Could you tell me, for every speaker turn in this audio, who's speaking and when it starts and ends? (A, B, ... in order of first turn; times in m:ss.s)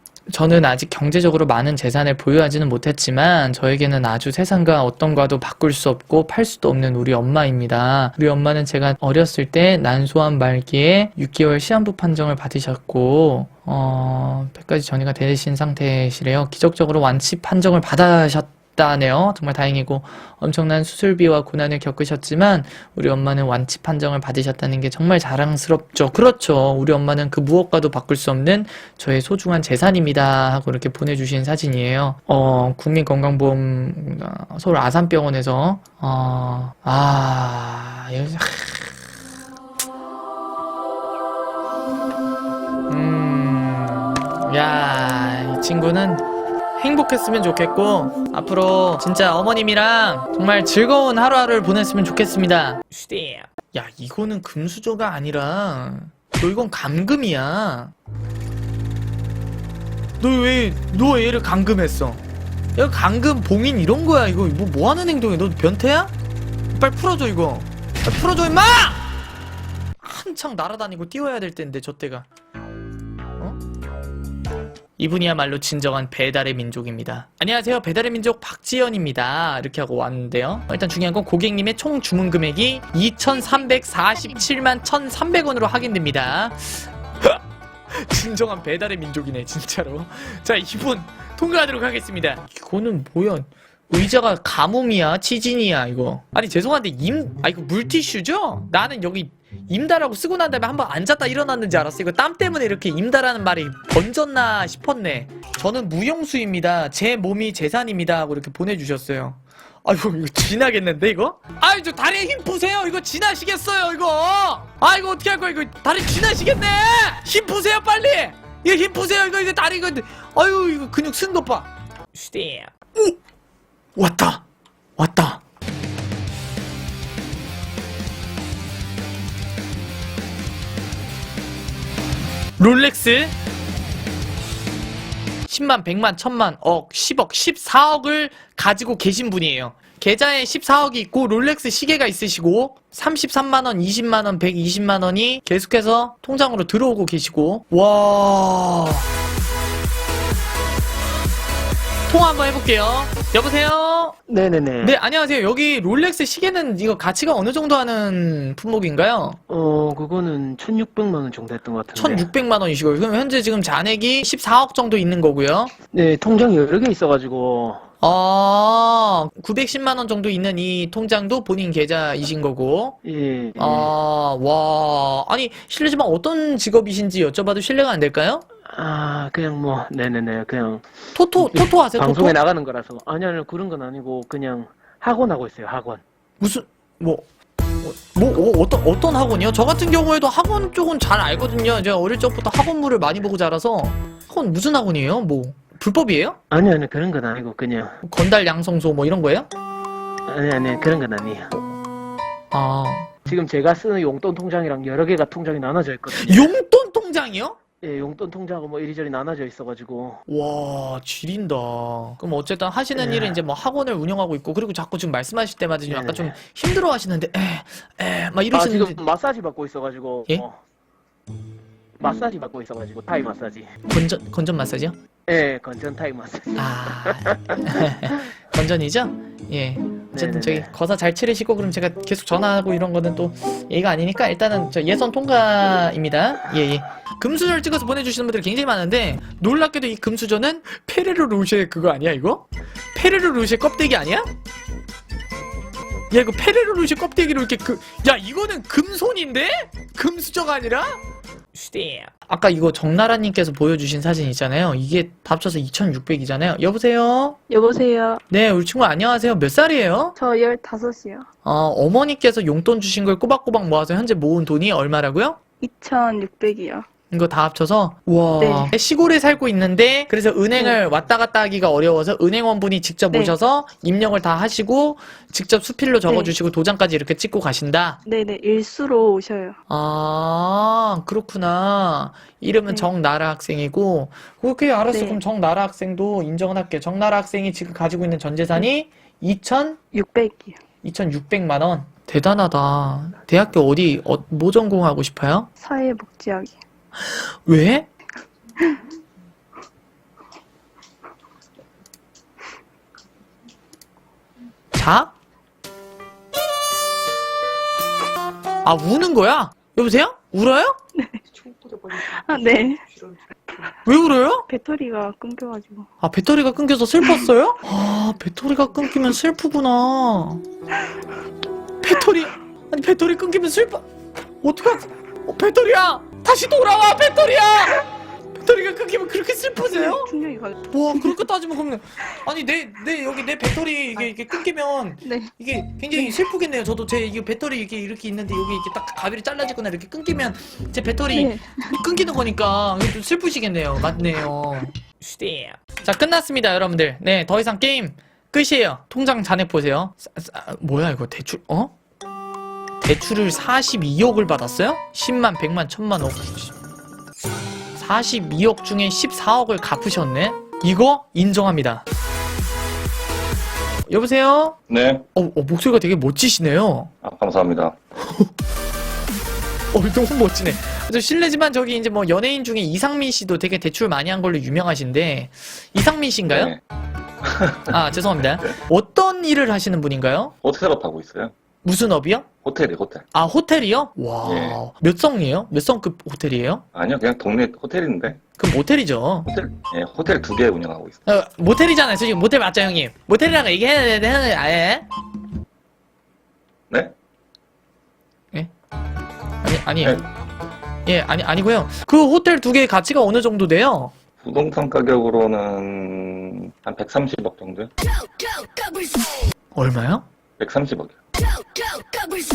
0:00.3-0:38.9 A
0:42.9-0:46.2 A
0:46.8-0:57.9 A
1:00.2-1:02.2 A
1:02.8-1:06.1 A
1:06.7-1:09.1 A
1:10.0-1:12.3 A
1:15.0-1:27.4 A
1:27.9-2:03.2 A
2:04.0-2:04.4 A
2:05.0-2:05.4 A
2:12.6-2:13.3 A
2:15.5-2:29.0 A
2:32.1-2:34.2 A
2:34.3-2:35.0 B
2:34.8-2:39.4 A
2:39.5-2:42.3 B
2:42.0-2:45.7 A
2:45.9-2:47.9 B
2:48.0-2:53.0 A
2:53.0-2:53.9 B
2:53.6-2:58.4 A
2:58.7-3:00.9 B
3:01.2-3:02.4 A
3:01.4-3:06.0 B
3:06.4-3:07.3 A
3:07.8-3:16.4 A
3:16.5-3:18.0 B
3:18.0-3:19.5 A
3:20.3-3:21.5 B
3:22.5-3:23.1 A
3:23.3-3:26.5 B
3:26.1-3:27.6 A
3:27.8-3:30.2 B
3:30.3-3:39.0 A
3:33.0-3:33.4 B
3:35.9-3:36.4 B
3:38.5-3:40.6 B
3:42.0-3:43.7 B
3:43.9-3:45.0 A
3:45.3-3:47.8 B
3:46.6-4:04.3 A
3:50.1-3:50.7 B
4:06.1-4:11.0 A
4:11.6-4:17.4 A
4:17.5-4:18.2 C
4:18.3-4:20.2 A
4:20.2-4:21.3 C
4:21.4-4:25.4 A
4:25.6-4:26.9 C
4:27.1-4:38.0 A
4:28.4-4:28.7 C
4:36.1-4:36.3 C
4:38.0-4:39.6 C
4:39.7-4:49.8 A
4:44.9-4:45.2 C
4:49.9-4:50.6 C
4:50.8-4:55.5 A
4:55.6-4:56.6 C
4:57.1-4:57.9 A
5:04.8-5:05.1 A
5:08.6-5:10.8 A
5:11.0-5:12.8 C
5:13.8-5:14.5 A
5:14.5-5:15.9 C
5:16.0-5:20.4 A
5:21.8-5:23.8 A
5:24.4-5:30.1 A
5:29.6-5:31.2 C
5:30.7-5:51.7 A
5:35.0-5:35.3 C
5:41.1-5:41.8 C
5:52.8-5:56.5 A
5:57.8-6:01.8 A
6:03.9-6:04.6 A
6:04.7-6:05.0 D
6:05.2-6:06.9 A
6:07.0-6:07.8 D
6:09.7-6:16.5 A
6:16.3-6:16.6 D
6:17.2-6:17.8 D
6:17.7-6:20.3 A
6:20.4-6:21.3 D
6:21.6-6:22.3 A
6:22.4-6:23.0 D
6:23.1-6:26.6 A
6:24.2-6:24.6 D
6:26.7-6:28.2 D
6:28.4-6:29.3 A
6:29.3-6:31.0 D
6:31.1-6:34.9 A
6:36.7-6:37.0 D
6:39.4-6:40.0 A
6:40.9-6:43.9 A
6:44.2-6:47.7 D
6:49.6-6:50.0 A
6:50.4-6:51.0 D